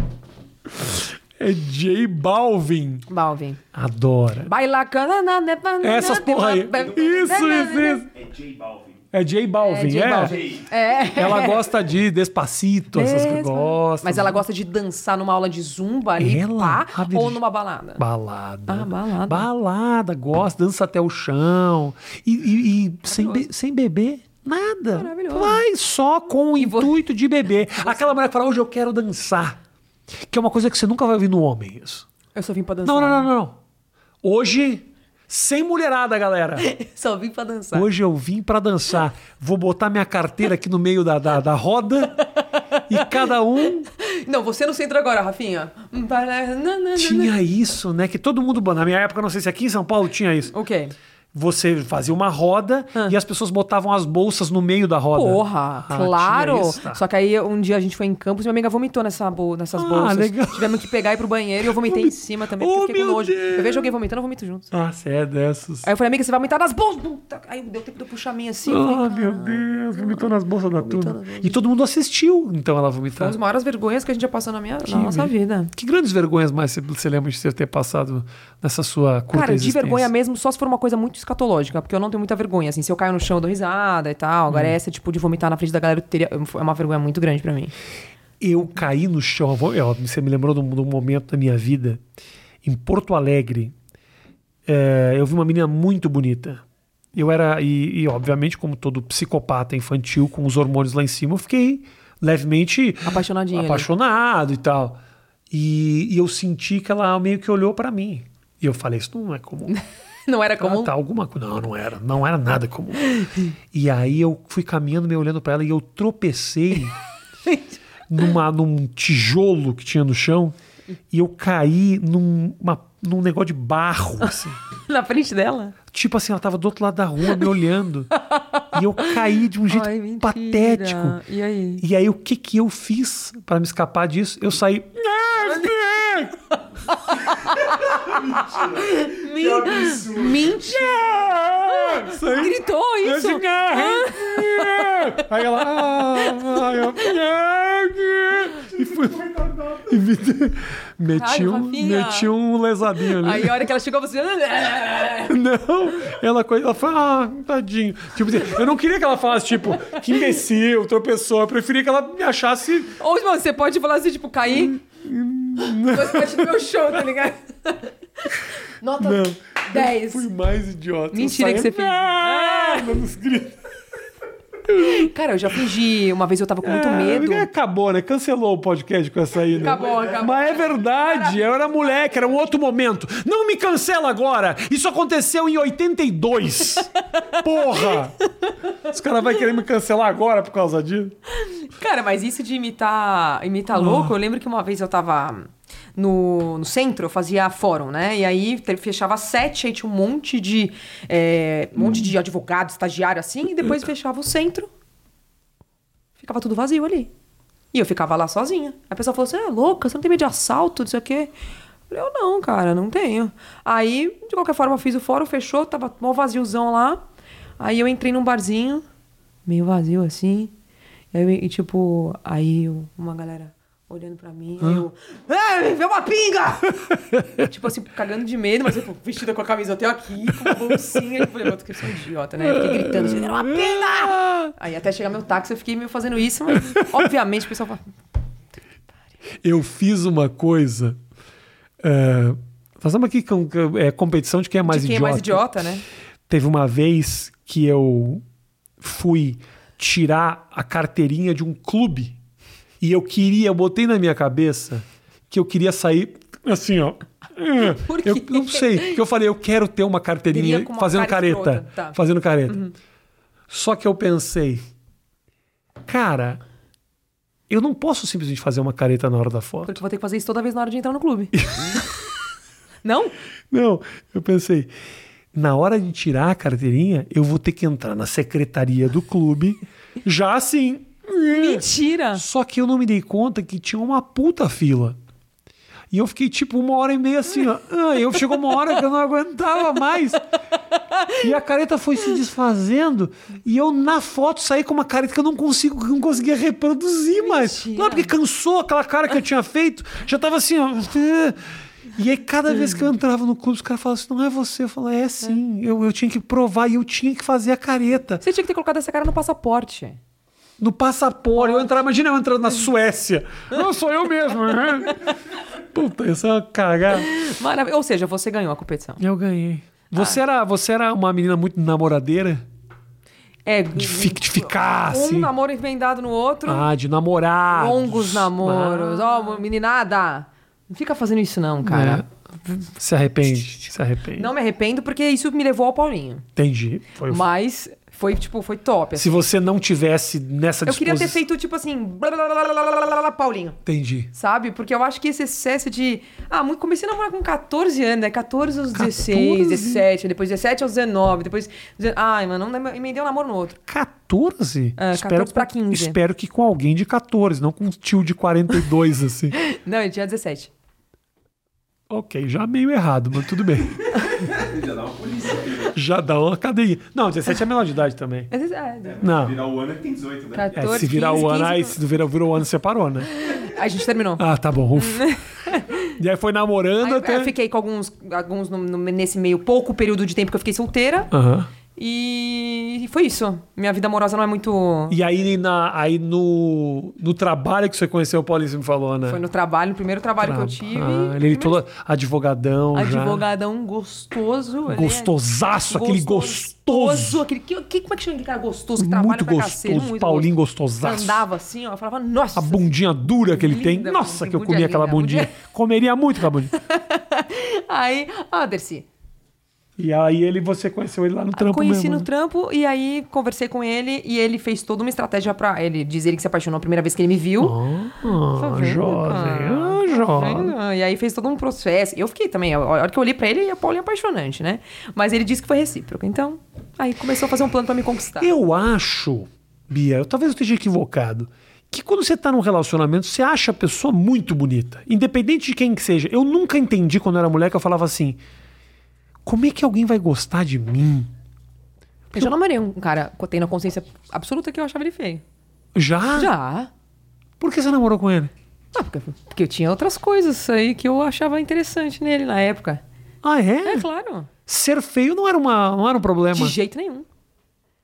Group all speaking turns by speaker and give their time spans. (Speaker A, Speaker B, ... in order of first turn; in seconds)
Speaker A: 0.7-3.1, 3.7-4.5, 5.8-8.1, 9.1-10.4, 11.1-14.4, 16.2-17.4, 18.0-29.6, 30.3-32.1, 32.9-33.6, 34.2-36.7, 37.7-42.2, 42.9-43.9, 47.0-50.5, 51.3-57.0, 59.7-61.0, 61.6-63.9, 64.7-65.9, 68.7-73.4, 74.8-80.1, 84.5-84.8, 88.4-92.0, 92.6-93.7, 94.7-96.6, 97.1-105.0, 105.5-109.8, 110.6-117.0, 118.1-120.5, 121.1-124.6, 125.9-128.1, 128.7-131.2, 131.8-136.4, 139.7-153.7, 155.3-162.9, 164.5-166.6, 169.0-173.6, 174.7-175.1, 176.6-188.2, 188.8-191.2, 193.7-194.1, 230.5-230.8, 232.4-234.5, 236.7-237.1, 239.4-241.0, 241.8-245.5, 246.3-248.2, 248.8-252.2, 252.8-262.6, 263.5-264.6, 265.9-266.4, 267.5-269.8, 271.4-271.8, 273.5-274.7, 275.3-285.0, 285.9-290.3, 291.1-301.4, 301.9-308.2, 310.6-317.1, 319.0-322.4, 323.8-325.3, 326.5-329.2, 331.6-334.3, 336.4-337.2, 339.0-341.2, 343.7-344.1, 348.8-349.9, 353.7-359.4, 361.9-364.0, 365.7-368.3, 369.0-369.4, 370.6-373.1, 374.2-375.1, 375.9-377.3, 381.1-381.5, 384.9-389.2, 390.2-393.2, 394.7-397.2, 398.8-401.2, 402.4-406.5, 409.8-412.1, 417.4-420.6, 428.2-438.2, 439.2-441.1, 445.8-446.3, 447.4-448.3, 453.2-453.9, 454.5-456.6
Speaker B: 3.1-3.6, 4.5-8.1, 9.6-11.6, 12.9-18.0, 18.7-19.5, 23.1-23.5, 24.9-25.6, 26.6-27.0, 27.8-28.1, 32.4-33.3, 36.6-37.9, 42.4-43.3, 43.9-47.4, 50.5-50.9, 55.1-64.7, 65.8-70.3, 70.8-71.6, 73.2-75.7, 79.3-87.7, 103.0-103.9, 109.7-110.9, 113.1-113.5, 117.5-117.8, 124.7-125.8, 128.1-129.1, 129.7-131.8, 135.4-135.9, 136.5-141.1, 141.6-145.3, 146.0-147.1, 151.1-152.3, 153.0-155.4, 163.0-164.8, 165.6-170.3, 171.1-173.0, 174.7-177.5, 179.6-182.4, 187.1-188.5, 191.4-204.7, 206.2-207.1, 207.7-211.3, 211.9-217.1, 217.6-218.8, 219.5-220.5, 221.1-237.9, 244.7-245.8, 257.6-259.0, 260.3-262.7, 269.6-271.4, 272.8-273.1, 281.3-282.2, 290.7-291.2, 297.2-298.1, 308.2-310.0, 311.4-311.7, 316.9-319.0, 323.4-326.7, 327.5-332.0, 334.2-336.2, 337.1-339.3, 340.7-343.6, 344.1-353.6, 354.8-356.0, 359.3-360.5, 368.3-369.0, 370.3-371.8, 373.2-375.9, 376.8-381.1, 381.8-385.0, 389.1-391.6, 392.7-402.7, 403.3-405.3, 406.5-408.9, 411.3-417.6, 418.1-428.3, 442.1-445.2, 446.1-446.7, 448.7-452.8, 453.6-454.3, 456.3-457.1
Speaker C: 6.7-9.1, 10.2-10.7, 138.3-138.7, 139.4-140.4, 364.2-365.8, 368.9-370.9